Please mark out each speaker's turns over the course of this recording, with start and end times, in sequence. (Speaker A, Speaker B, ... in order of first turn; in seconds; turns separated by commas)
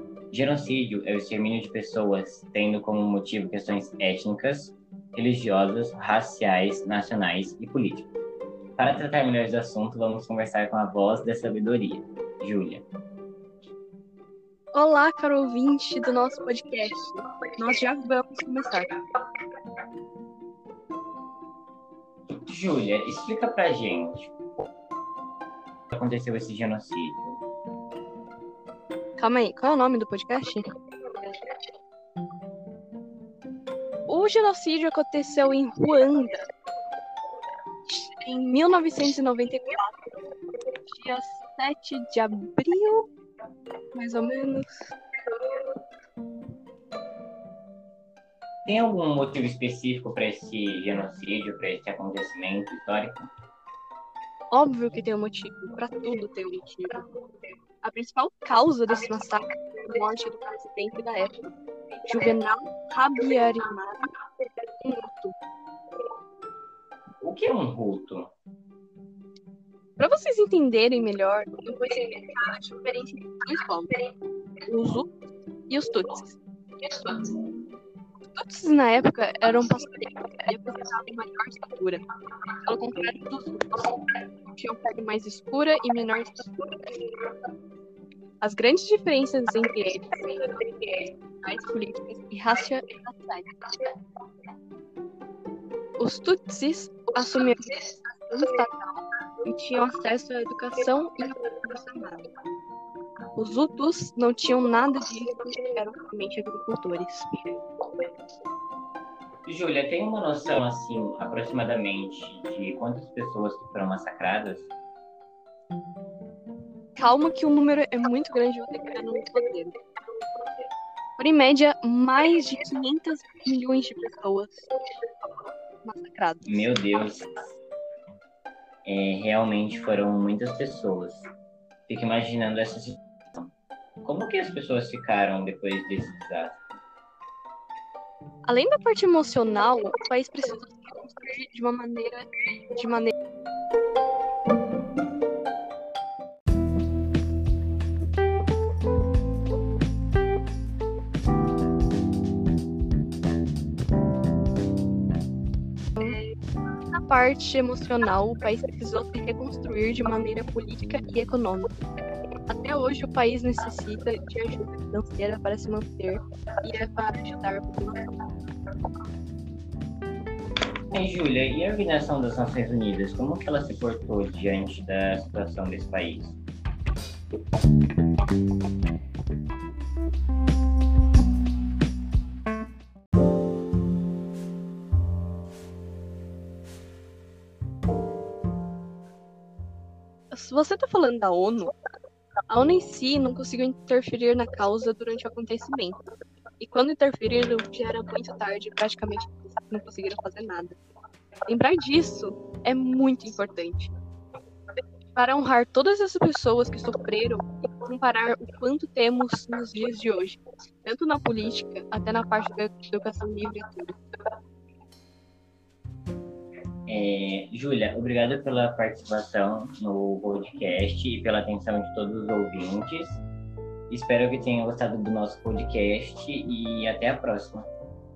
Speaker A: 0.3-8.1, Speaker A: 8.8-12.8, Speaker B: 14.7-19.0, Speaker A: 22.4-24.3, Speaker A: 25.9-27.4, Speaker B: 29.2-31.5, Speaker B: 34.1-36.5, Speaker B: 37.9-39.9, Speaker B: 40.8-43.1, Speaker B: 43.9-44.8, Speaker B: 45.3-45.6, Speaker A: 48.6-53.3, Speaker B: 54.5-57.0, Speaker B: 57.8-64.1, Speaker B: 64.8-65.3, Speaker A: 67.2-68.3, Speaker B: 70.0-74.0, Speaker B: 74.7-75.1, Speaker B: 75.7-77.3, Speaker B: 78.3-82.0, Speaker B: 82.6-87.2, Speaker B: 88.4-93.9, Speaker B: 96.0-102.3, Speaker B: 103.3-107.6, Speaker A: 109.4-114.7, Speaker B: 117.0-119.8, Speaker B: 121.2-124.7, Speaker B: 125.8-126.7, Speaker A: 126.4-127.4, Speaker A: 128.8-131.2, Speaker A: 131.9-133.5, Speaker A: 134.0-136.7, Speaker B: 138.4-143.1, Speaker B: 156.0-156.3, Speaker B: 156.9-161.7, Speaker B: 162.6-168.1, Speaker A: 170.9-176.4, Speaker B: 190.3-191.7, Speaker B: 192.5-196.0, Speaker B: 196.6-200.8, Speaker B: 201.5-203.9, Speaker B: 205.1-213.9, Speaker A: 216.9-223.2, Speaker A: 223.9-227.7